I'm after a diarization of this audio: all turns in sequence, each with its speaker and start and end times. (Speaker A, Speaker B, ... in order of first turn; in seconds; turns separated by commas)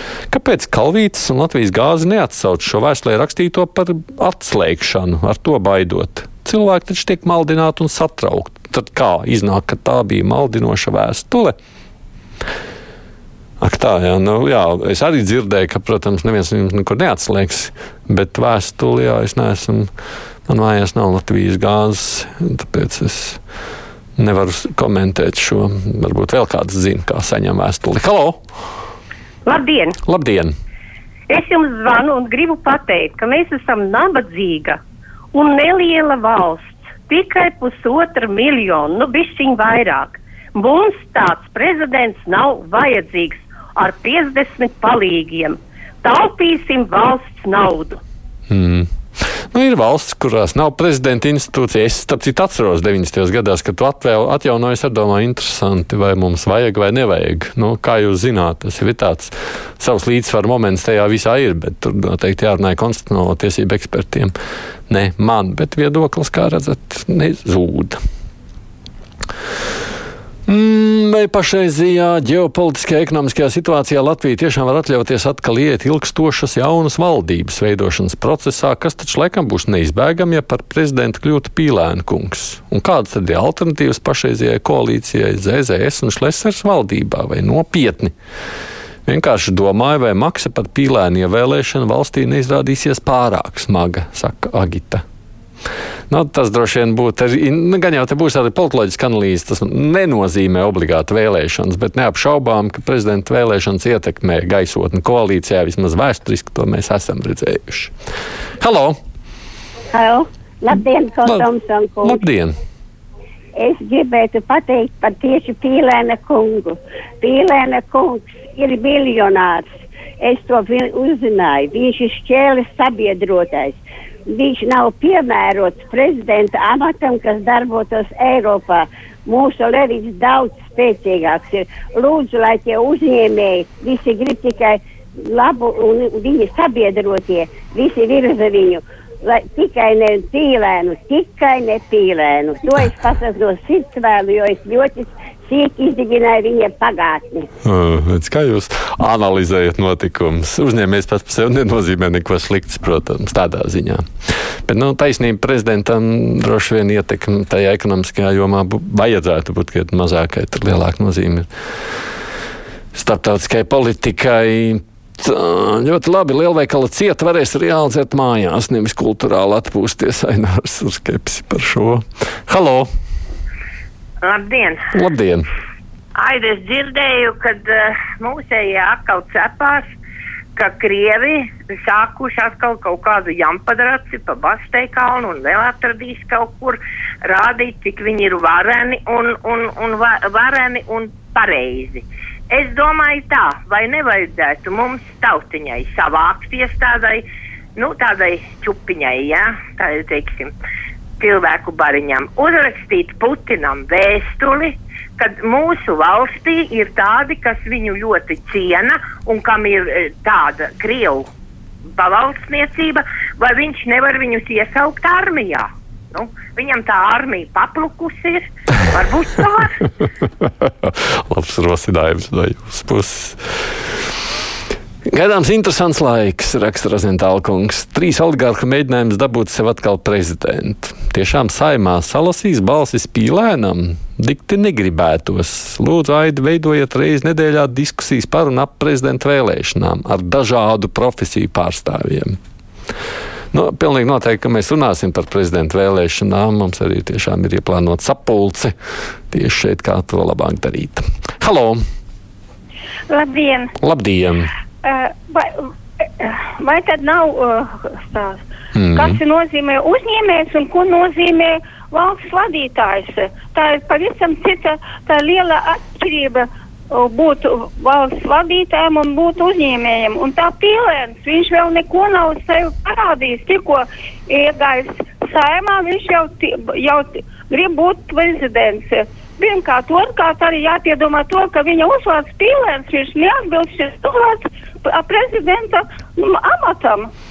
Speaker A: 0.3-11.5, Speaker A: 13.6-19.9, Speaker A: 20.5-23.4, Speaker A: 24.2-28.4, Speaker B: 29.4-29.9, Speaker A: 30.0-30.5, Speaker B: 31.3-34.8, Speaker B: 35.3-48.0, Speaker A: 48.5-48.9, Speaker A: 49.5-64.3, Speaker A: 64.9-68.0, Speaker A: 70.5-88.1, Speaker A: 89.0-95.0, Speaker A: 96.1-107.9, Speaker A: 108.6-109.0, Speaker C: 109.9-112.2, Speaker A: 112.0-112.5, Speaker C: 113.5-119.6, Speaker C: 120.2-147.5, Speaker A: 147.6-154.0, Speaker A: 154.7-161.5, Speaker A: 162.9-172.9, Speaker D: 174.2-174.8, Speaker A: 174.9-175.4, Speaker D: 176.1-179.8, Speaker D: 180.6-197.2, Speaker D: 197.8-200.5, Speaker D: 201.2-211.3, Speaker D: 212.0-219.8, Speaker A: 220.6-223.4, Speaker A: 225.1-242.3, Speaker A: 243.5-248.7, Speaker A: 249.3-251.8, Speaker E: 253.1-253.7, Speaker A: 253.8-254.5, Speaker E: 254.8-258.4, Speaker A: 258.7-259.2, Speaker E: 258.9-287.1